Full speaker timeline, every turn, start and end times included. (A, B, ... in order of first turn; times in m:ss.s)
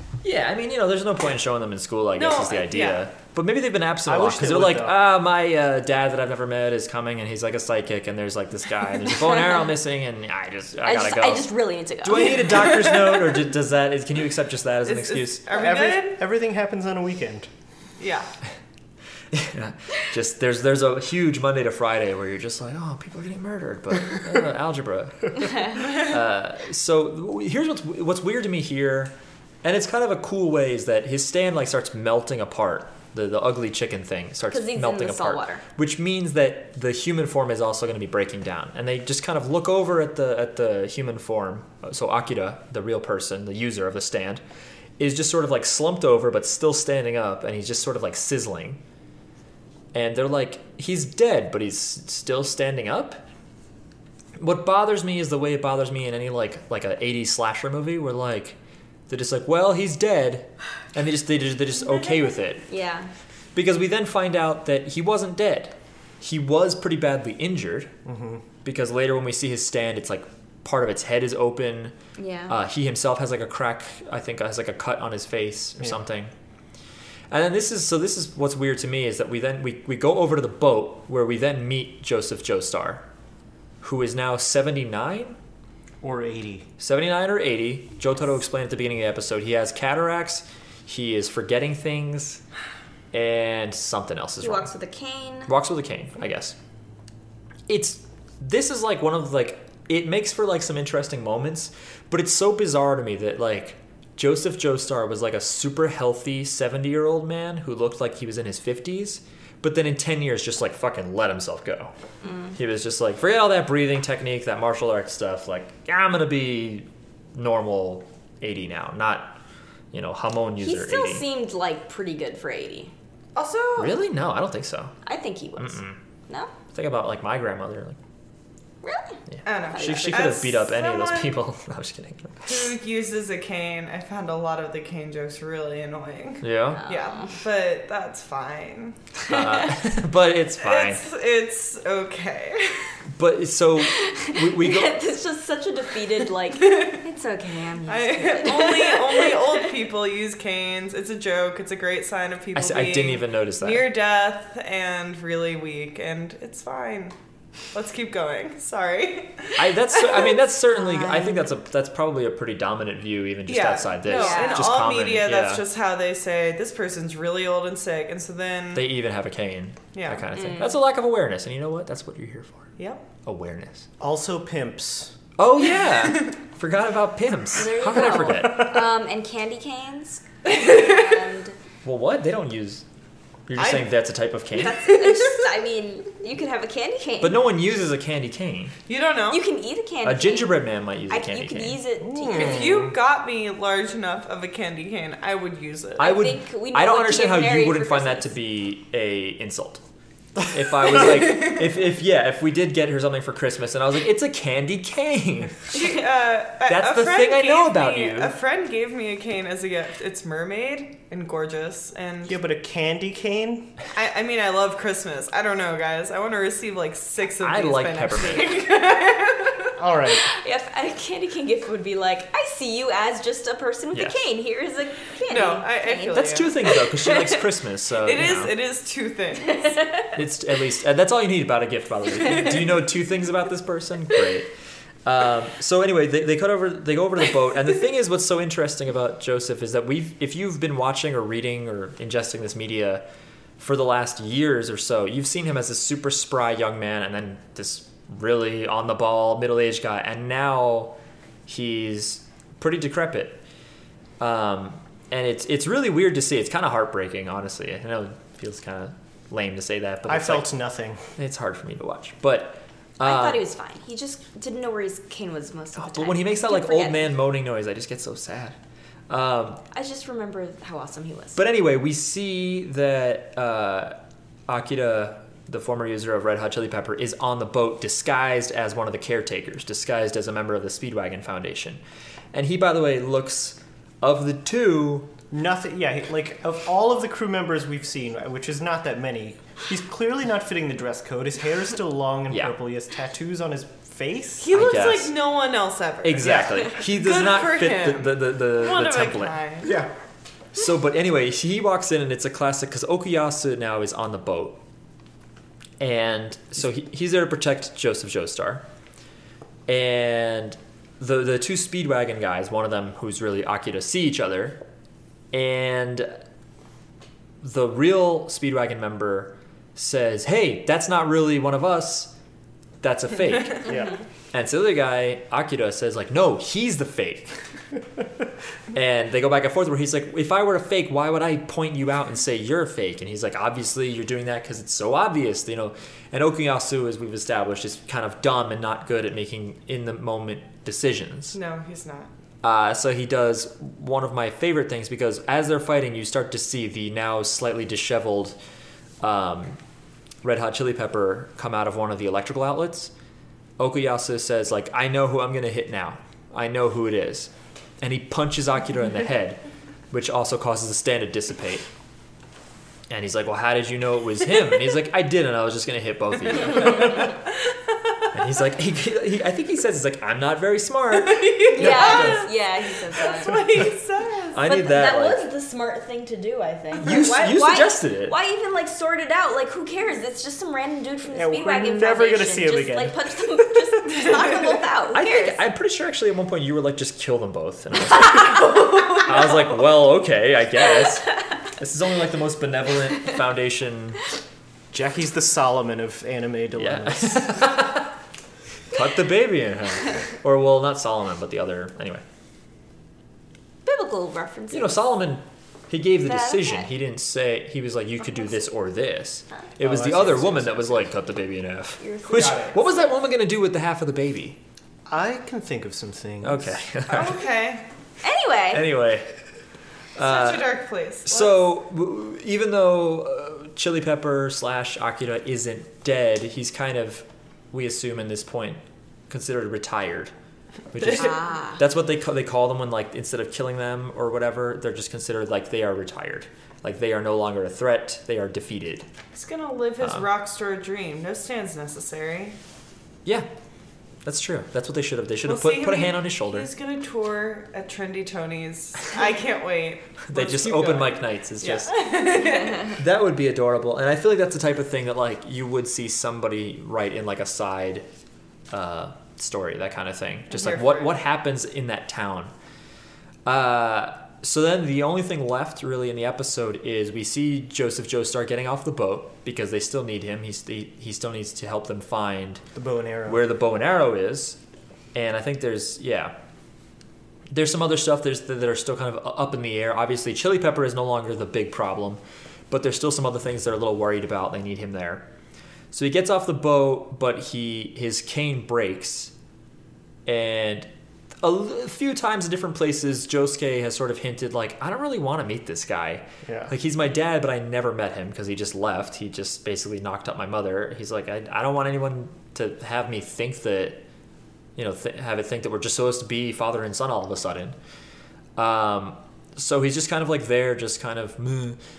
0:00.2-0:15.4 A
0:02.1-0:03.0 B
0:04.0-0:05.0 C
0:10.8-0:12.5 D
0:14.9-0:16.2 B
0:15.5-0:17.5 C
0:18.0-0:18.3 B
0:19.3-0:44.4 A
0:34.5-0:35.6 D
0:45.0-0:48.8 A
0:49.9-0:53.2 A
0:54.4-0:58.6 A
0:59.1-1:02.7 A
1:02.7-1:03.1 D
1:03.5-1:07.9 A
1:08.0-1:08.4 C
1:08.6-1:12.0 A
1:12.2-1:12.6 D
1:12.5-1:16.3 A
1:17.3-1:23.0 A
1:23.8-1:25.4 A
1:26.0-1:26.7 C
1:26.8-1:32.4 A
1:33.1-1:34.7 A
1:34.4-1:35.5 D
1:35.4-1:36.6 A
1:37.7-1:51.9 A
1:52.2-1:52.5 D
1:52.6-1:59.4 A
1:59.9-2:01.2 A
2:00.6-2:02.9 D
2:03.4-2:04.0 B
2:03.8-2:04.9 A
2:05.0-2:06.5 D
2:05.6-2:06.0 A
2:06.7-2:08.0 A
2:08.8-2:09.2 D
2:09.3-2:12.7 A
2:09.4-2:11.4 B
2:09.7-2:10.4 D
2:12.4-2:19.2 B
2:16.4-2:16.8 A
2:16.7-2:17.4 D
2:19.2-2:21.0 A
2:20.6-2:23.0 B
2:23.1-2:25.1 A
2:23.9-2:29.6 D
2:27.9-2:37.1 B
2:32.5-2:33.9 A
2:37.7-2:40.3 B
2:39.6-2:45.6 A
2:40.7-2:41.4 D
2:43.4-2:48.9 B
2:44.0-2:44.7 D
2:48.7-2:53.9 A
2:49.9-2:50.3 B
2:50.3-2:50.7 D
2:52.8-2:53.0 B
2:54.0-2:55.2 C
2:55.4-2:58.8 A
2:55.6-2:56.3 B
2:57.5-3:01.6 D
3:01.8-3:02.8 A
3:03.5-3:05.2 A
3:03.6-3:03.9 B
3:04.5-3:07.4 D
3:07.2-3:08.7 A
3:08.9-3:09.4 B
3:09.3-3:10.6 D
3:10.0-3:11.8 A
3:11.1-3:12.7 D
3:12.0-3:13.0 C
3:12.4-3:16.1 B
3:16.0-3:18.3 D
3:16.0-3:19.8 A
3:20.4-3:26.0 A
3:25.7-3:32.4 B
3:26.6-3:28.4 A
3:32.2-3:33.8 C
3:33.9-3:39.7 B
3:37.4-3:38.7 A
3:38.9-3:47.4 D
3:39.8-3:40.3 C
3:43.9-3:44.2 A
3:45.3-3:46.7 B
3:46.1-3:48.6 A
3:48.0-3:49.8 B
3:49.5-3:50.1 D
3:50.1-3:54.5 A
3:55.0-4:03.0 A
4:03.6-4:13.4 A
4:14.2-4:20.5 A
4:20.1-4:21.0 C
4:21.2-4:23.5 A
4:23.0-4:27.1 D
4:25.8-4:28.6 A
4:29.1-4:29.6 A
4:29.7-4:31.4 D
4:31.4-4:34.0 A
4:34.5-4:41.8 A
4:42.3-4:45.1 A
4:45.3-4:54.5 C
4:52.3-4:52.6 A
4:54.4-4:59.8 B
4:54.5-4:55.2 A
4:56.0-4:59.4 A
4:56.2-4:56.6 C
4:59.6-4:59.9 C
5:00.5-5:04.6 A
5:05.8-5:08.6 A
5:09.7-5:14.6 A
5:15.3-5:16.1 A
5:17.4-5:22.1 A
5:22.8-5:23.8 A
5:23.6-5:24.0 C
5:24.3-5:27.4 A
5:28.7-5:41.4 A
5:41.3-5:42.1 B
5:42.4-5:48.4 A
5:49.0-5:49.6 A
5:50.2-5:52.9 A
5:53.6-5:57.3 A
5:57.8-6:01.7 A
6:02.9-6:07.2 A
6:08.1-6:12.3 A
6:10.9-6:14.4 B
6:11.6-6:13.4 D
6:14.3-6:15.3 A
6:14.4-6:25.4 D
6:16.8-6:18.1 A
6:21.1-6:23.6 C
6:23.9-6:24.5 B
6:24.9-6:34.0 A
6:28.4-6:29.1 B
6:34.7-6:37.5 C
6:36.6-6:37.9 A
6:38.7-6:42.0 A
6:43.6-6:44.8 D
6:44.5-6:54.4 A
6:46.0-6:46.7 D
6:49.6-6:50.8 C
6:51.8-6:52.6 D
6:52.1-6:52.5 C
6:54.9-6:56.6 C
6:56.2-6:57.3 A
6:56.9-6:57.7 B
6:58.0-6:58.7 D
6:58.5-6:59.2 A
7:00.0-7:10.1 A
7:00.0-7:01.4 B
7:10.7-7:18.9 A
7:10.9-7:11.6 D
7:19.1-7:22.4 B
7:19.8-7:20.1 A
7:24.0-7:26.5 A
7:25.3-7:32.8 B
7:30.0-7:31.9 A
7:32.6-7:37.8 A
7:38.5-7:42.3 A
7:40.3-7:40.9 B
7:43.2-7:52.4 A
7:52.6-7:53.2 C
7:53.0-7:54.4 A
7:54.9-7:56.1 A
7:57.3-8:05.0 A
8:05.7-8:09.1 A
8:10.0-8:10.7 A
8:11.2-8:23.8 A
8:16.2-8:16.5 C
8:24.6-8:27.6 A
8:28.4-8:31.6 A